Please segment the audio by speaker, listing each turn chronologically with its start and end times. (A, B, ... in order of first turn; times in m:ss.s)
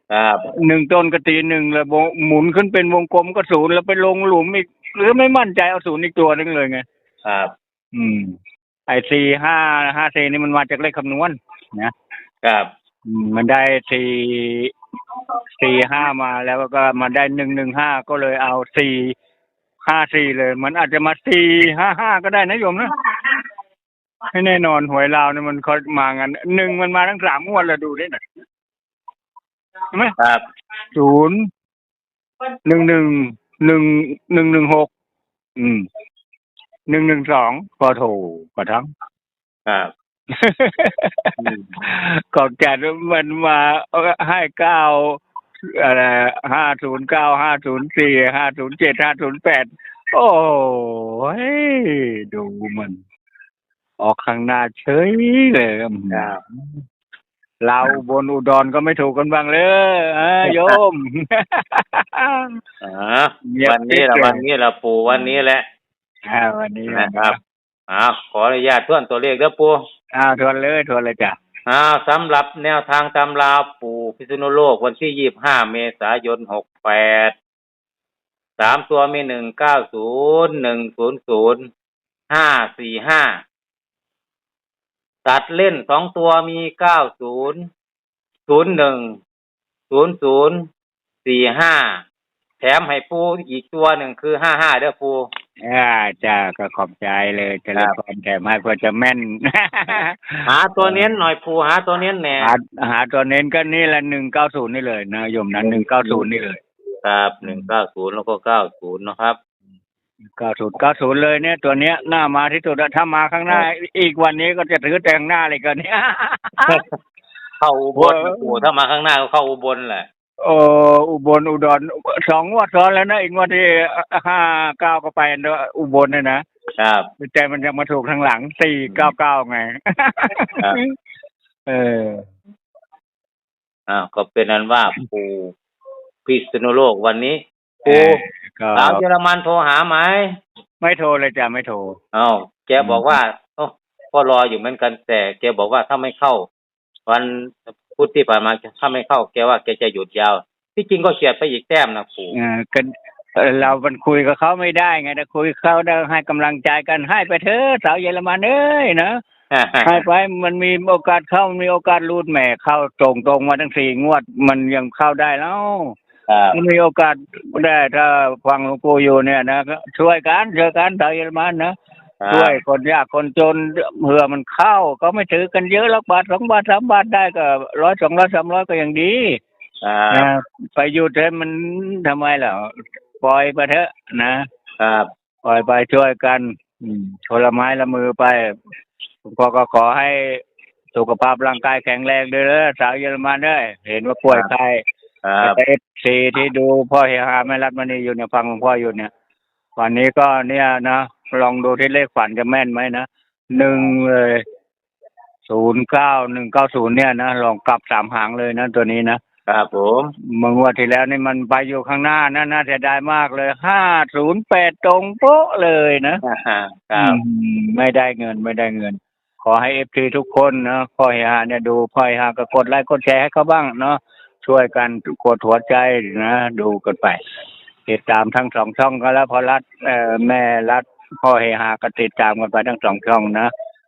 0:00.1-0:00.5 A
0:00.6-0:06.8 B
0:07.2-0:07.5 A
0:07.9-0:08.4 B
0:08.9-0:11.9 B
0:12.4-0:12.7 A
0:13.0-0:14.7 B
0:15.6-0:19.2 B
0:19.8-0:22.9 B
0:24.3-0:28.2 B
0:31.0-0:31.4 B
0:32.7-0:34.9 B
0:35.6-0:35.8 B
0:36.9-0:38.9 B
0:40.4-0:45.2 B
0:41.4-0:41.7 A
0:45.7-0:53.0 B
0:54.0-0:56.5 B
0:56.1-0:56.4 A
0:57.6-1:02.6 B
1:00.5-1:00.8 A
1:02.8-1:05.6 A
1:03.5-1:04.4 B
1:06.3-1:07.4 B
1:06.9-1:07.4 A
1:07.9-1:09.8 A
1:10.2-1:11.4 B
1:11.7-1:17.3 A
1:18.6-1:21.7 A
1:22.3-1:23.4 A
1:25.2-1:27.7 A
1:28.5-1:29.2 A
1:29.9-1:30.6 A
1:31.2-1:32.0 A
1:32.6-1:35.3 A
1:35.6-1:41.1 B
1:40.5-1:42.5 A
1:42.4-1:46.6 B
1:45.6-1:46.2 A
1:47.0-1:49.4 A
1:47.4-1:47.7 B
1:50.4-1:56.8 B
1:56.6-1:56.9 A
1:57.6-2:00.1 A
1:58.0-1:58.6 B
2:00.4-2:06.4 B
2:06.8-2:07.1 A
2:07.2-2:10.9 B
2:11.7-2:12.2 B
2:13.9-2:15.5 A
2:16.3-2:18.2 A
2:17.9-2:19.0 B
2:18.8-2:20.3 A
2:20.8-2:22.0 B
2:22.1-2:26.5 A
2:22.8-2:23.1 B
2:27.1-2:32.4 A
2:32.3-2:39.2 B
2:39.5-2:40.0 A
2:39.8-2:46.0 B
2:46.3-2:46.6 A
2:46.5-2:51.7 B
2:52.2-2:52.6 A
2:52.3-2:59.4 B
2:59.8-3:00.3 A
3:00.1-3:04.4 B
3:04.8-3:05.1 A
3:05.4-3:08.6 B
3:09.2-3:10.4 B
3:10.9-3:14.8 B
3:15.2-3:15.6 A
3:15.4-3:19.1 B
3:19.8-3:24.4 B
3:25.5-3:29.2 B
3:29.5-3:30.1 A
3:30.3-3:36.2 B
3:36.2-3:37.2 A
3:37.0-3:47.2 B
3:47.9-3:53.5 B